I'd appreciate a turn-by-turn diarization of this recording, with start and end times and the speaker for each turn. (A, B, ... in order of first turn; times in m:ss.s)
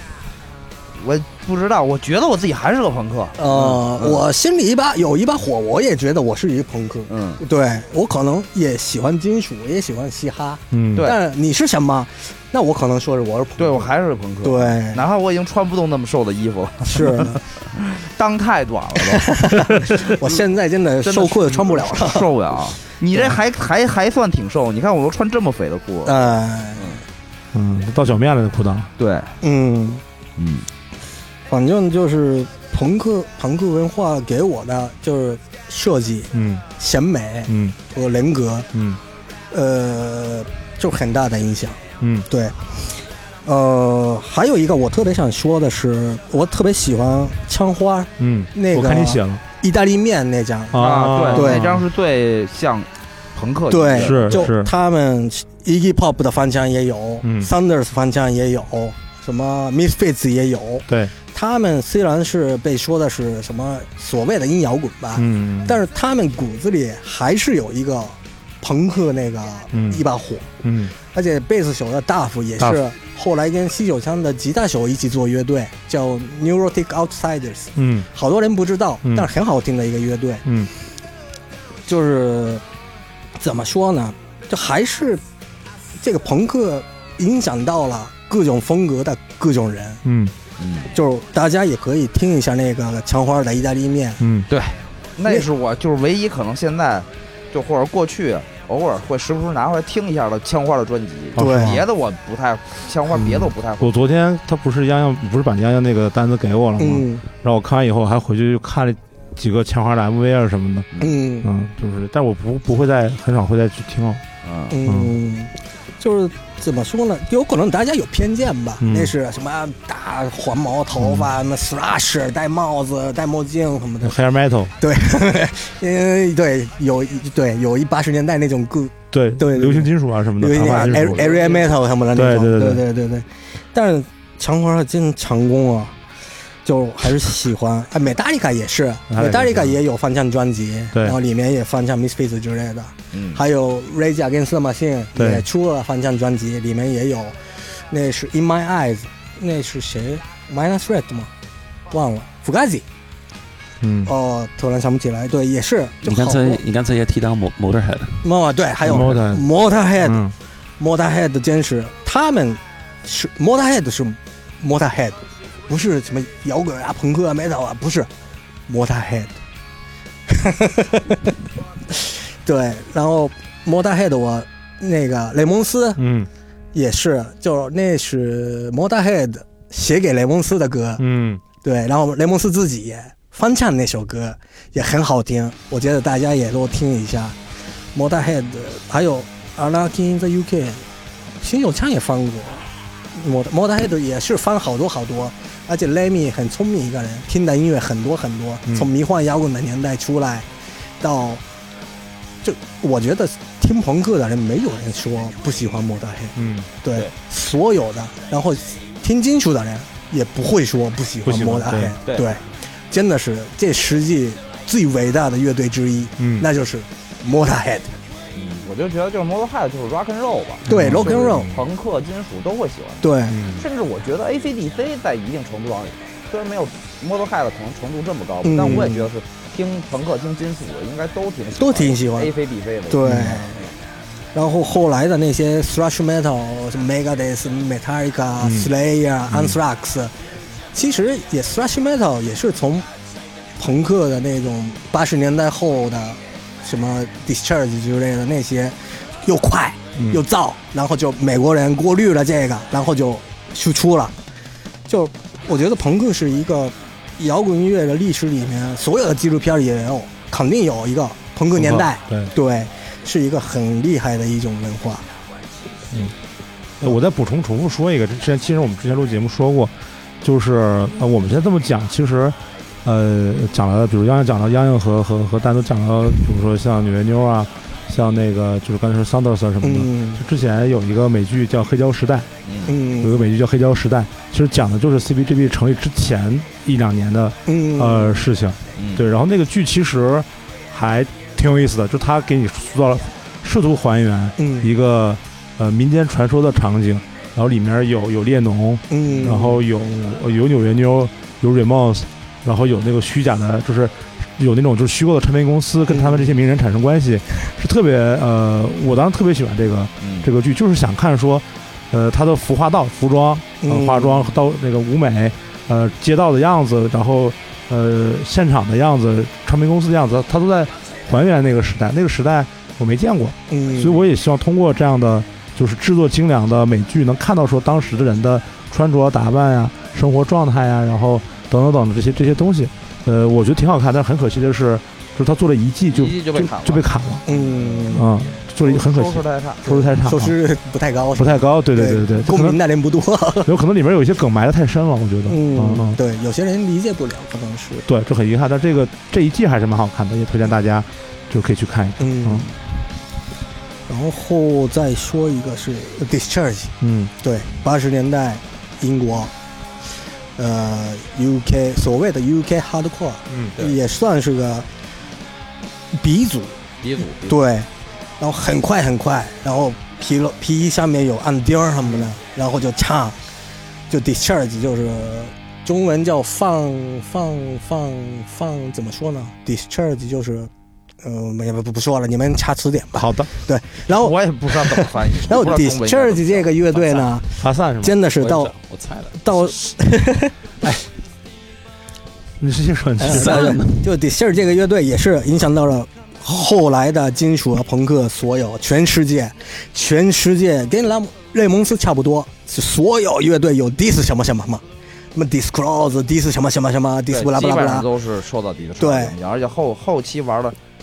0:00.9-0:04.2 A
0:03.4-0:13.9 B
0:07.1-0:07.4 A
0:10.7-0:11.1 C
0:13.6-0:20.4 A
0:14.4-0:15.0 B
0:16.8-0:17.4 B
0:19.1-0:22.3 B
0:21.0-0:27.0 A
0:26.0-0:27.0 B
0:27.5-0:28.9 C
0:29.0-0:29.3 A
0:29.4-0:30.0 B
0:30.4-0:30.6 A
0:31.5-0:38.7 B
0:36.3-0:36.6 C
0:37.5-0:37.8 C
0:38.7-0:39.0 C
0:39.5-0:42.6 B
0:42.0-0:42.2 C
0:43.4-0:51.7 B
0:48.2-0:49.4 C
0:50.7-0:51.8 C
0:50.8-0:54.5 A
0:53.7-1:10.5 B
0:54.0-0:54.7 C
0:57.2-0:57.5 C
1:00.9-1:01.1 C
1:05.2-1:05.8 C
1:09.7-1:10.0 C
1:10.6-1:10.9 C
1:11.1-1:20.4 B
1:17.8-1:18.1 C
1:19.0-1:19.3 C
1:20.4-1:20.7 C
1:21.9-1:22.6 B
1:23.4-1:25.2 B
1:26.0-1:30.0 B
1:30.0-1:30.3 C
1:30.6-1:30.9 A
1:30.9-1:34.2 B
1:34.2-1:34.5 C
1:34.5-1:44.0 A
1:41.4-1:41.8 C
1:41.4-1:41.8 B
1:43.1-1:50.9 C
1:46.8-1:47.2 B
1:51.0-1:51.5 B
1:51.4-1:54.2 C
1:54.4-1:54.8 A
1:54.7-2:04.2 B
1:54.8-1:55.1 C
1:58.8-1:59.1 C
2:01.0-2:01.3 C
2:04.0-2:04.7 C
2:04.8-2:16.0 B
2:09.1-2:11.4 C
2:10.7-2:11.8 A
2:12.1-2:12.8 C
2:16.6-2:31.3 B
2:19.1-2:19.8 C
2:23.1-2:23.4 A
2:25.2-2:25.4 C
2:31.9-2:32.8 B
2:33.8-2:34.1 C
2:34.0-2:36.6 B
2:36.0-2:38.2 D
2:38.2-2:40.2 B
2:38.8-2:39.5 C
2:40.0-2:40.3 C
2:40.8-2:48.1 B
2:48.7-2:49.4 B
2:50.3-2:51.3 B
2:51.9-2:56.0 B
2:56.0-2:56.3 C
2:56.7-3:01.0 B
3:01.0-3:01.4 C
3:01.6-3:07.4 B
3:07.9-3:10.8 B
3:11.4-3:20.5 B
3:21.0-3:21.4 B
3:22.4-3:37.9 B
3:26.4-3:26.7 C
3:31.2-3:32.0 C
3:36.2-3:36.5 C
3:38.3-3:53.7 A
3:40.6-3:41.5 B
3:40.6-3:41.6 C
3:43.0-3:43.4 B
3:43.3-3:43.7 C
3:48.4-3:49.1 B
3:48.6-3:48.9 C
3:51.6-3:52.3 B
3:52.9-3:53.6 B
3:53.0-3:53.4 C
3:54.3-4:00.1 B
3:58.4-3:58.7 C
3:59.3-3:59.6 C
4:00.7-4:02.9 B
4:03.6-4:14.1 B
4:10.0-4:10.2 C
4:14.9-4:25.0 B
4:21.5-4:22.3 C
4:26.8-4:42.3 C
4:39.6-4:40.2 B
4:42.4-4:42.8 A
4:42.6-4:43.2 B
4:43.0-5:37.2 C
4:47.4-4:48.3 B
4:48.8-4:49.0 A
4:54.4-4:54.7 B
4:58.9-4:59.6 B
5:05.9-5:06.3 B
5:10.0-5:10.3 A
5:13.6-5:14.4 B
5:23.5-5:24.0 B
5:35.9-5:38.1 A
5:37.2-5:38.1 B
5:37.9-5:40.4 C
5:38.6-5:39.8 A
5:39.6-5:43.5 B
5:41.1-5:42.6 C
5:43.4-5:46.0 C
5:45.3-5:47.9 B
5:47.9-5:52.5 C
5:52.0-5:52.5 B
5:53.9-5:59.3 B
5:56.8-5:57.1 C
6:00.4-6:04.7 B
6:05.9-6:06.6 B
6:06.8-6:07.4 A
6:07.2-6:07.7 B
6:08.2-6:13.2 B
6:13.9-6:20.5 B
6:21.0-6:28.5 B
6:22.9-6:23.3 C
6:23.9-6:27.1 A
6:27.4-6:28.0 C
6:28.2-6:29.5 D
6:29.2-6:30.8 B
6:32.4-6:33.6 C
6:33.0-6:44.6 B
6:33.1-6:33.8 D
6:45.1-6:47.9 B
6:47.1-6:50.6 A
6:48.8-6:49.1 B